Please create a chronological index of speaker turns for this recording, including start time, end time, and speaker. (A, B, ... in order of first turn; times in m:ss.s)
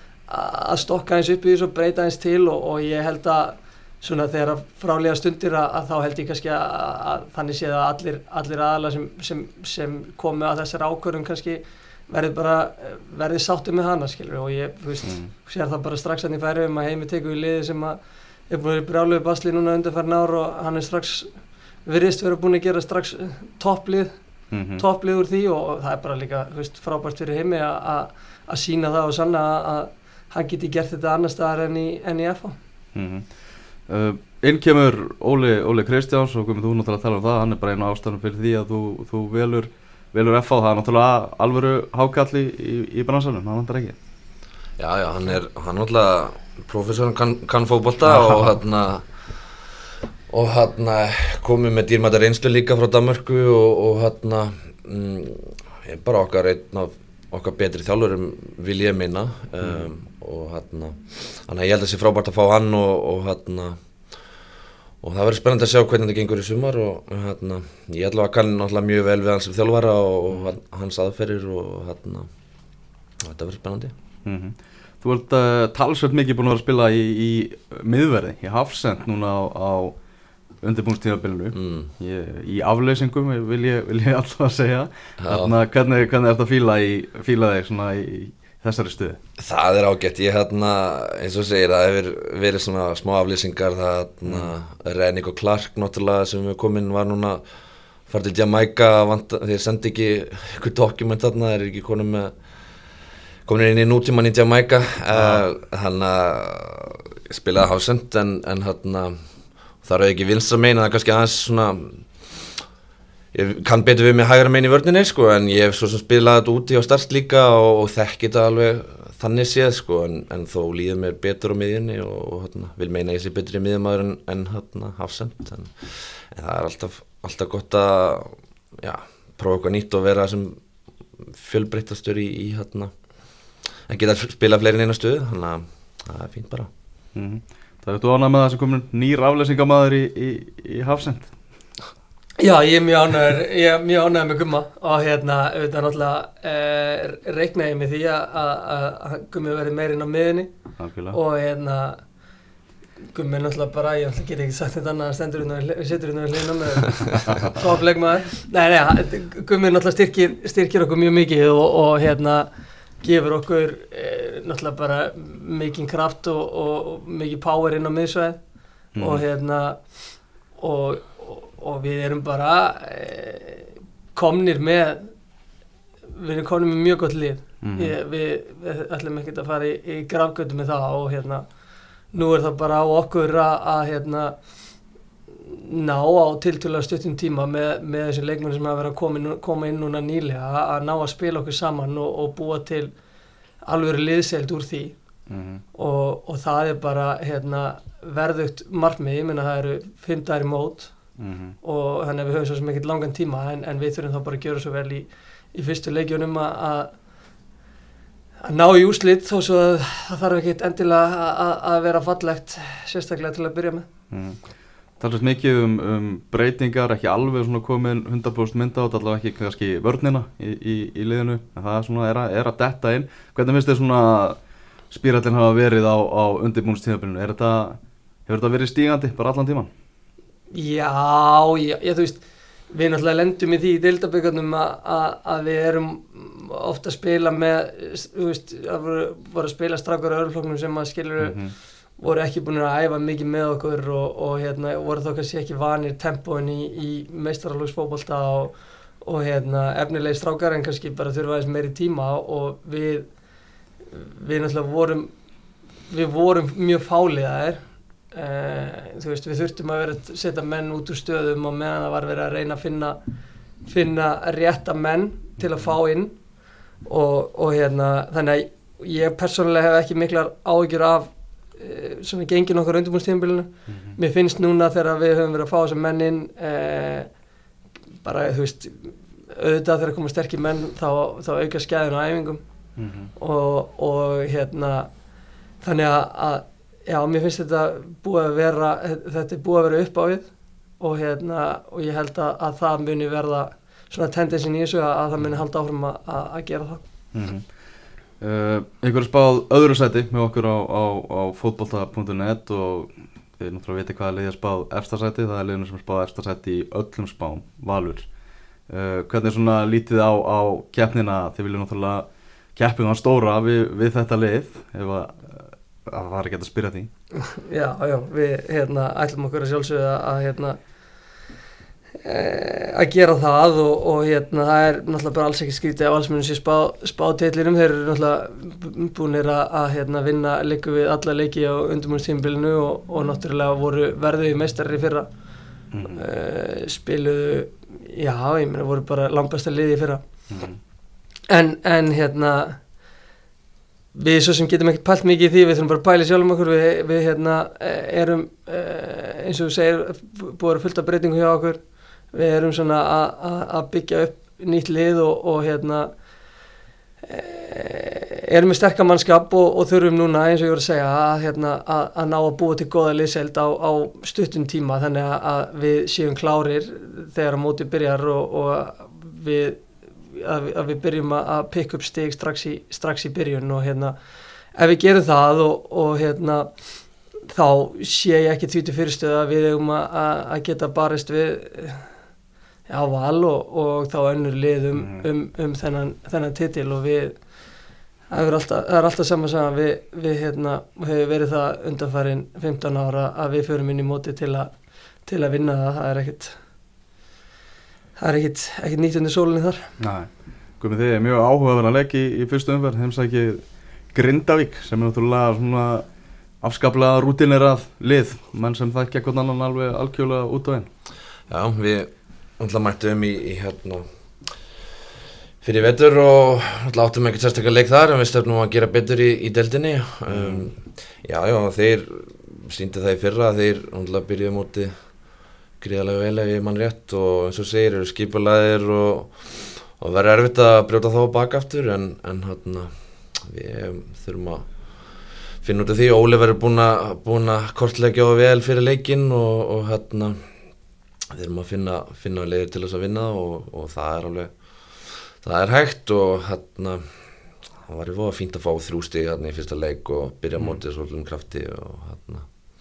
0:00.3-0:18.0 A
0:15.0-0:15.3 B
0:18.5-0:21.3 A
0:21.8-0:24.1 A
0:24.5-0:24.8 B
0:24.8-0:32.6 A
0:33.0-0:33.3 B
0:33.9-0:44.0 B
0:44.8-0:49.1 C
0:48.1-0:48.5 B
0:50.3-1:03.8 C
1:05.0-1:12.3 C
1:13.2-1:13.9 C
1:14.2-1:20.0 B
1:20.6-1:29.2 B
1:21.5-1:21.9 C
1:25.2-1:25.6 C
1:29.4-1:37.4 C
1:38.1-1:42.4 C
1:43.5-1:49.2 C
1:45.1-1:45.4 B
1:49.8-1:52.1 C
1:53.3-2:10.6 C
2:11.2-2:12.9 C
2:13.9-2:16.7 C
2:17.2-2:21.3 B
2:22.4-2:30.5 A
2:30.8-2:31.2 B
2:31.1-2:32.0 A
2:33.0-2:42.5 A
2:43.0-2:48.4 A
2:49.0-2:49.2 B
2:49.0-2:49.9 A
2:50.6-2:55.1 A
2:56.2-3:01.4 A
2:57.6-2:58.0 B
3:02.1-3:04.4 A
3:05.5-3:12.9 A
3:13.6-3:15.0 A
3:15.3-3:15.6 B
3:15.7-3:26.9 A
3:21.2-3:21.6 B
3:28.4-3:33.9 A
3:34.1-3:34.4 B
3:35.0-3:44.4 B
3:44.9-3:49.7 B
3:50.5-4:13.1 A
4:01.2-4:01.5 B
4:13.9-4:15.1 A
4:15.9-4:23.0 A
4:23.6-4:26.1 A
4:26.8-4:37.1 A
4:33.7-4:34.0 B
4:38.0-4:42.4 A
4:42.8-4:43.1 B
4:43.2-4:44.9 A
4:45.6-4:50.3 A
4:50.8-4:56.8 A
4:57.1-4:57.5 B
4:58.2-5:08.1 B
5:08.7-5:16.9 B
5:17.2-5:20.6 A
5:22.0-5:35.1 A
5:35.7-5:36.0 B
5:35.9-5:40.0 A
5:40.3-5:40.6 B
5:41.3-5:42.6 A
5:43.9-5:51.6 A
5:52.1-5:55.9 A
5:57.0-6:14.0 A
6:14.6-6:16.5 A
6:17.3-6:21.9 A
6:22.7-6:27.2 A
6:24.8-6:25.1 B
6:28.1-6:34.5 A
6:35.1-6:36.4 A
6:38.0-6:39.7 A
6:39.8-6:45.9 B
6:46.4-6:50.7 B
6:51.3-6:53.8 C
6:55.4-7:04.7 C
7:00.1-7:00.5 B
7:05.6-7:14.5 C
7:15.4-7:20.2 C
7:21.1-7:24.3 C
7:24.8-7:26.9 C
7:27.6-7:32.3 C